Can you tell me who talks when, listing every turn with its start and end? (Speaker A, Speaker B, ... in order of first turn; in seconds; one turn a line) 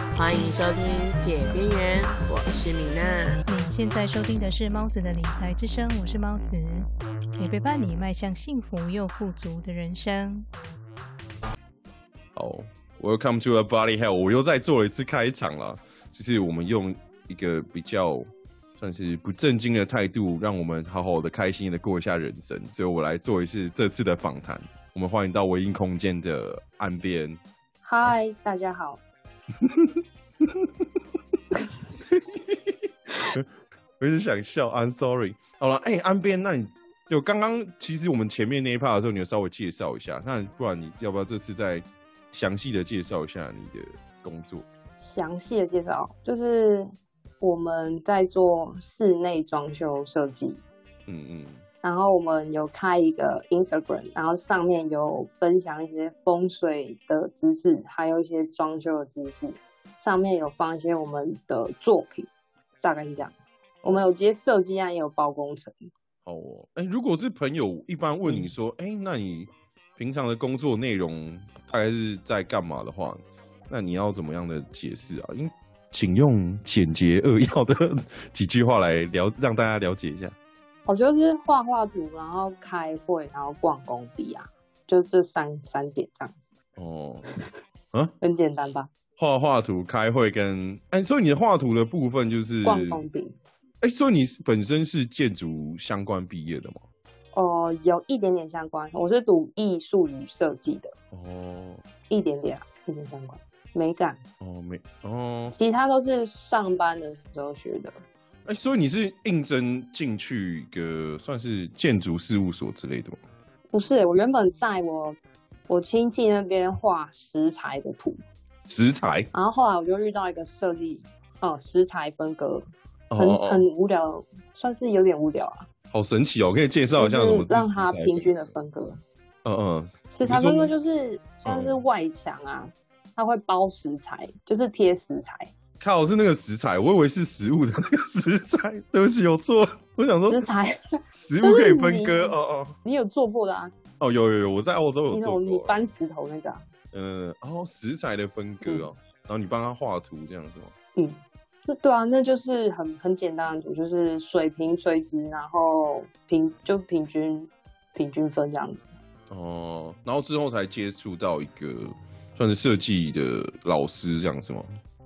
Speaker A: 0.1-3.4
Speaker B: 3.5-10.5
Speaker C: 12.3-27.4
Speaker D: 27.8-29.0
Speaker C: 29.6-30.8
Speaker C: 32.1-32.8
Speaker C: 34.0-44.7
Speaker D: 45.0-50.6
Speaker C: 51.1-51.6
Speaker D: 51.8-65.8
Speaker C: 66.2-80.3
Speaker D: 68.2-68.5
Speaker D: 80.9-86.5
Speaker C: 86.8-87.3
Speaker D: 88.2-88.9
Speaker C: 89.2-93.0
Speaker D: 92.6-93.4
Speaker C: 93.8-96.8
Speaker D: 97.3-100.9
Speaker C: 101.1-101.8
Speaker D: 102.1-104.2
Speaker C: 104.4-105.5
Speaker D: 105.5-108.0
Speaker C: 108.5-113.2
Speaker D: 113.7-118.2
Speaker C: 118.7-119.3
Speaker D: 119.3-125.7
Speaker C: 123.1-123.7
Speaker C: 125.9-128.3
Speaker D: 127.0-129.0
Speaker C: 129.4-130.7
Speaker D: 130.1-135.5
Speaker C: 131.4-131.8
Speaker C: 135.8-140.4
Speaker D: 140.3-140.8
Speaker C: 141.2-142.8
Speaker D: 141.4-143.7
Speaker C: 144.0-145.8
Speaker D: 145.1-146.6
Speaker C: 146.9-150.7
Speaker D: 148.6-148.9
Speaker D: 151.0-158.9
Speaker C: 159.3-164.7